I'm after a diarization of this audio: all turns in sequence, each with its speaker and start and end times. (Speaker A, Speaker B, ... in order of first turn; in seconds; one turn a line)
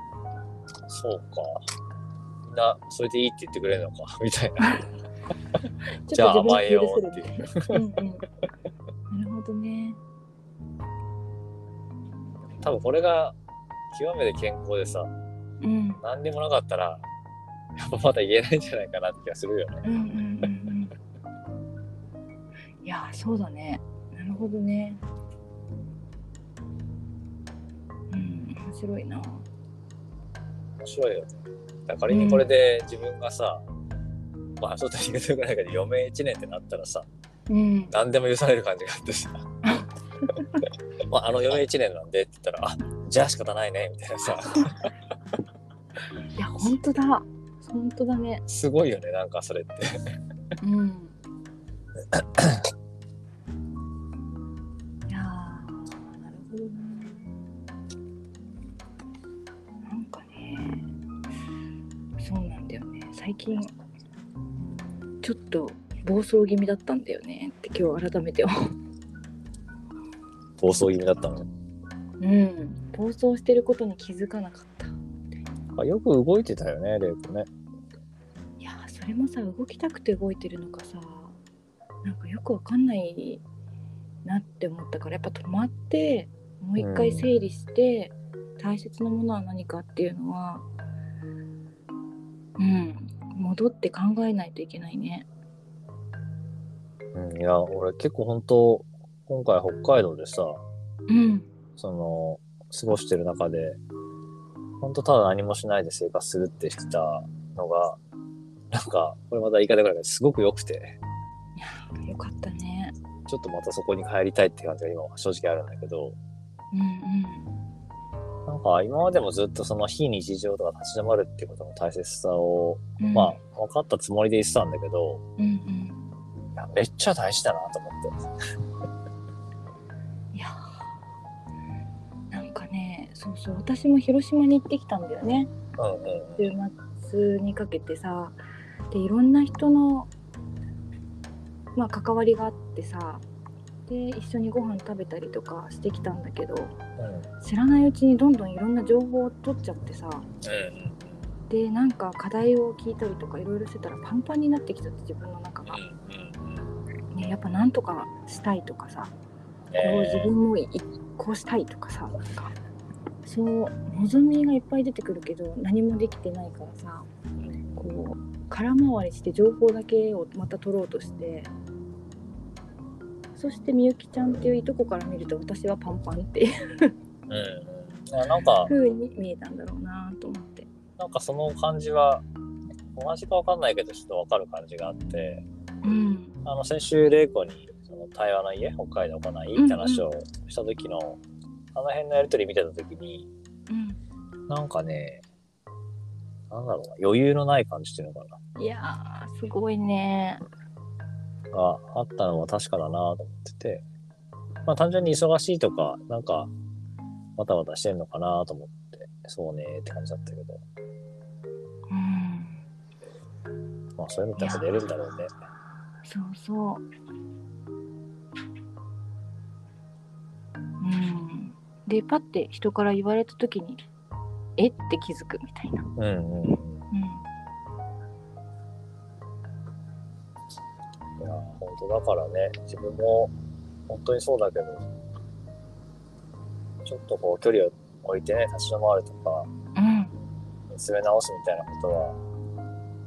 Speaker A: 0.9-1.6
Speaker A: 2.5-4.8
Speaker B: 6.0-8.2
Speaker A: 6.1-7.7
Speaker B: 9.1-10.0
Speaker A: 12.6-13.3
Speaker A: 13.9-15.1
Speaker B: 15.6-16.0
Speaker A: 16.0-17.0
Speaker A: 17.8-19.9
Speaker B: 19.8-20.9
Speaker B: 22.8-25.0
Speaker B: 28.1-29.4
Speaker A: 30.8-33.6
Speaker B: 32.1-32.5
Speaker A: 34.6-37.1
Speaker B: 37.5-37.9
Speaker A: 37.9-39.4
Speaker A: 41.1-44.8
Speaker B: 46.3-48.4
Speaker A: 48.5-49.9
Speaker B: 50.6-51.1
Speaker A: 52.1-52.6
Speaker B: 55.1-57.3
Speaker B: 59.9-60.9
Speaker B: 62.2-63.7
Speaker B: 65.2-68.5
Speaker A: 70.6-71.5
Speaker B: 72.2-75.0
Speaker A: 75.7-77.5
Speaker B: 78.6-81.3
Speaker B: 82.0-83.4
Speaker B: 84.2-90.6
Speaker A: 86.8-87.3
Speaker B: 92.6-95.2
Speaker A: 97.1-100.6
Speaker B: 101.1-101.5
Speaker A: 101.8-103.8
Speaker A: 104.8-108.0
Speaker A: 108.7-111.0
Speaker B: 111.5-112.9
Speaker A: 113.3-116.2
Speaker B: 116.7-117.5
Speaker A: 118.5-125.2
Speaker B: 123.0-123.4
Speaker B: 125.4-126.0
Speaker A: 126.5-128.2
Speaker B: 132.3-135.5
Speaker A: 135.8-136.5
Speaker B: 136.4-138.4
Speaker B: 138.9-140.1
Speaker B: 141.8-143.2
Speaker B: 143.9-146.7
Speaker A: 147.0-147.2
Speaker B: 147.4-150.2
Speaker A: 150.4-151.2
Speaker B: 151.5-155.8
Speaker A: 155.7-156.7
Speaker B: 157.1-159.1
Speaker A: 159.7-160.3
Speaker B: 159.8-162.5
Speaker B: 163.2-167.1
Speaker A: 167.4-167.8
Speaker B: 167.8-171.5
Speaker B: 173.3-176.9
Speaker A: 177.3-178.7
Speaker B: 178.7-180.7
Speaker A: 181.0-182.2
Speaker A: 182.9-185.4
Speaker B: 185.8-186.3
Speaker A: 186.4-191.2
Speaker B: 189.6-190.1
Speaker A: 191.7-193.3
Speaker B: 193.7-194.0
Speaker A: 194.5-195.2
Speaker A: 196.5-198.4
Speaker B: 198.6-200.4
Speaker A: 201.5-203.8
Speaker A: 204.7-206.5
Speaker A: 207.4-210.6
Speaker B: 211.9-212.6
Speaker A: 214.0-215.3
Speaker B: 214.4-214.7
Speaker B: 216.0-216.8
Speaker B: 220.8-223.8
Speaker B: 224.6-225.9
Speaker A: 226.0-226.8
Speaker B: 226.9-227.2
Speaker A: 231.2-233.3
Speaker A: 233.9-234.9
Speaker A: 236.8-239.5
Speaker B: 239.8-240.1
Speaker A: 240.7-242.2